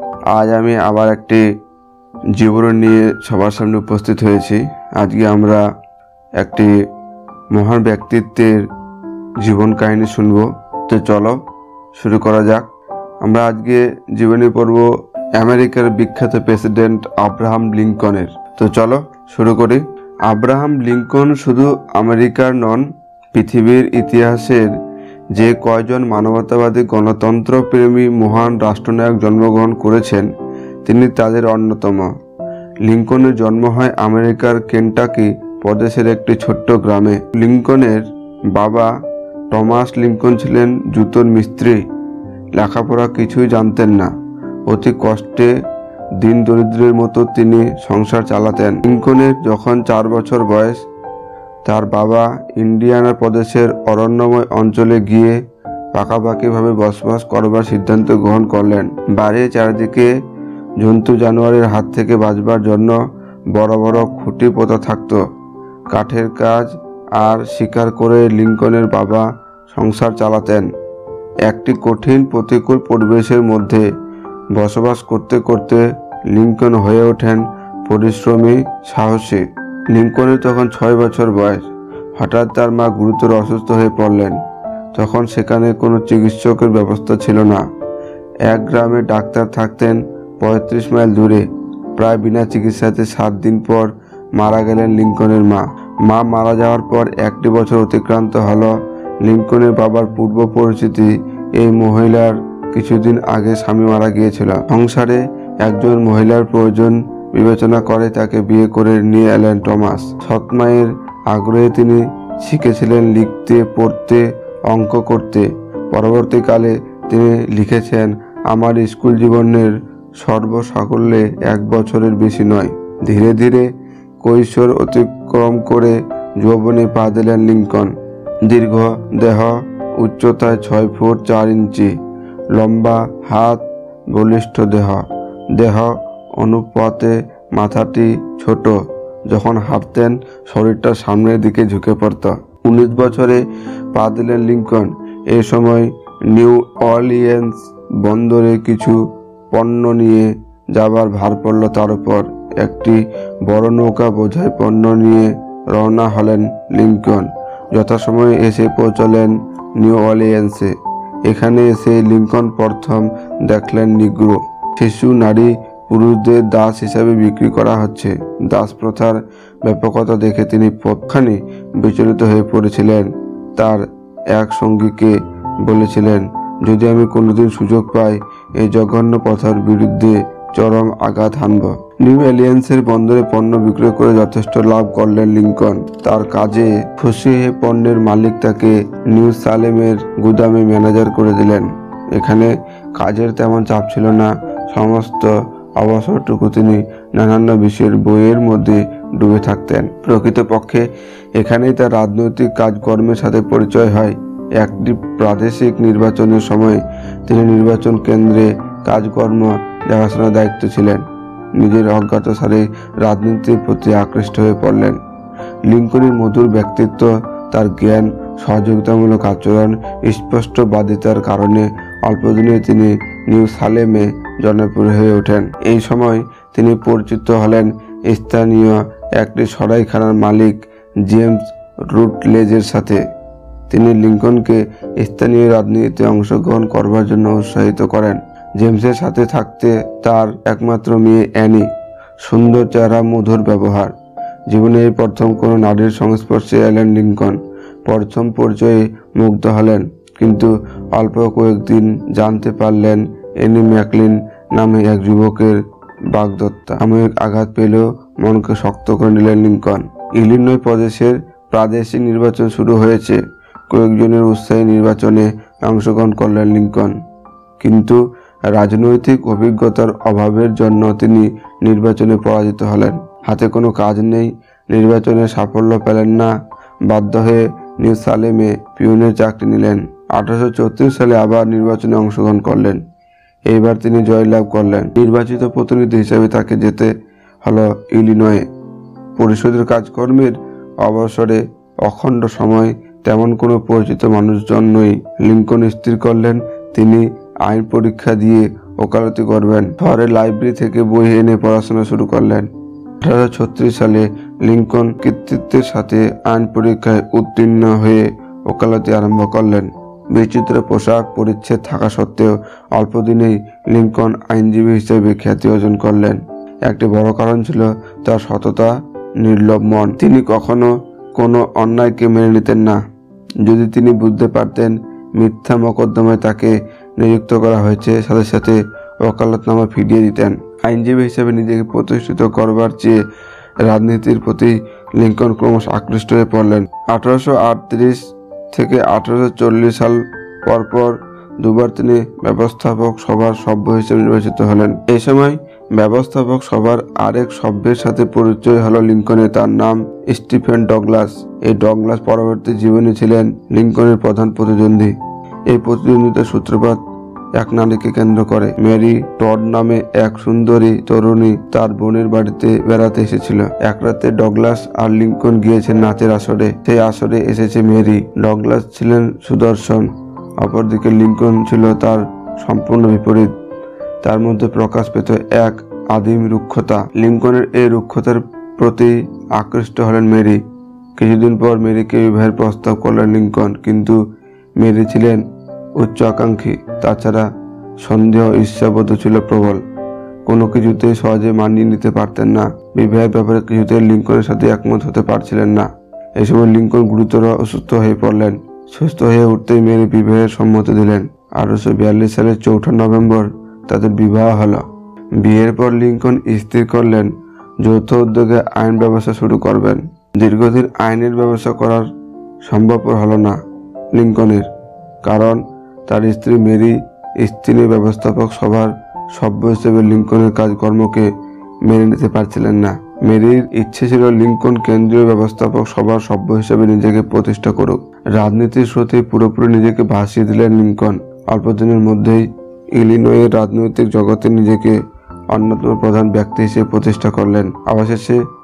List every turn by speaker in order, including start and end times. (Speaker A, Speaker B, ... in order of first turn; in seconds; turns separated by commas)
Speaker A: 0.3-1.4, Speaker A: 2.3-5.6, Speaker A: 6.4-6.7, Speaker A: 7.5-8.7, Speaker A: 9.4-11.4, Speaker A: 11.9-12.7, Speaker A: 13.2-24.8, Speaker A: 25.4-30.3, Speaker A: 30.9-32.1, Speaker A: 32.8-38.9, Speaker A: 39.5-41.8, Speaker A: 42.6-44.1, Speaker A: 44.7-45.5, Speaker A: 46.2-50.8, Speaker A: 51.6-55.4, Speaker A: 55.9-60.1, Speaker A: 60.8-63.0, Speaker A: 63.5-65.2, Speaker A: 65.9-70.7, Speaker A: 71.5-73.8, Speaker A: 74.5-81.6, Speaker A: 82.2-84.4, Speaker A: 84.9-87.6, Speaker A: 88.5-91.5, Speaker A: 92.0-123.7, Speaker A: 124.2-127.9, Speaker A: 128.4-131.9, Speaker A: 132.5-138.8, Speaker A: 139.3-143.4, Speaker A: 143.9-149.0, Speaker A: 149.5-160.7, Speaker A: 161.3-215.0, Speaker A: 215.7-233.0, Speaker A: 233.7-241.7, Speaker A: 242.2-243.9, Speaker A: 244.5-255.6, Speaker A: 256.1-266.9, Speaker A: 267.6-268.0, Speaker A: 268.5-276.3, Speaker A: 276.9-282.8, Speaker A: 283.5-286.9, Speaker A: 287.4-288.4, Speaker A: 289.2-302.5, Speaker A: 303.0-322.8, Speaker A: 323.4-333.0, Speaker A: 333.6-338.0, Speaker A: 338.5-354.9, Speaker A: 355.5-356.8, Speaker A: 357.4-373.3, Speaker A: 374.0-380.4, Speaker A: 381.0-384.0, Speaker A: 384.6-385.2, Speaker A: 385.8-387.3, Speaker A: 387.8-389.6, Speaker A: 390.3-395.7, Speaker A: 396.2-404.6, Speaker A: 405.2-407.1, Speaker A: 407.6-411.9, Speaker A: 412.4-413.4, Speaker A: 413.9-414.5, Speaker A: 415.0-421.1, Speaker A: 421.7-434.8, Speaker A: 435.3-438.2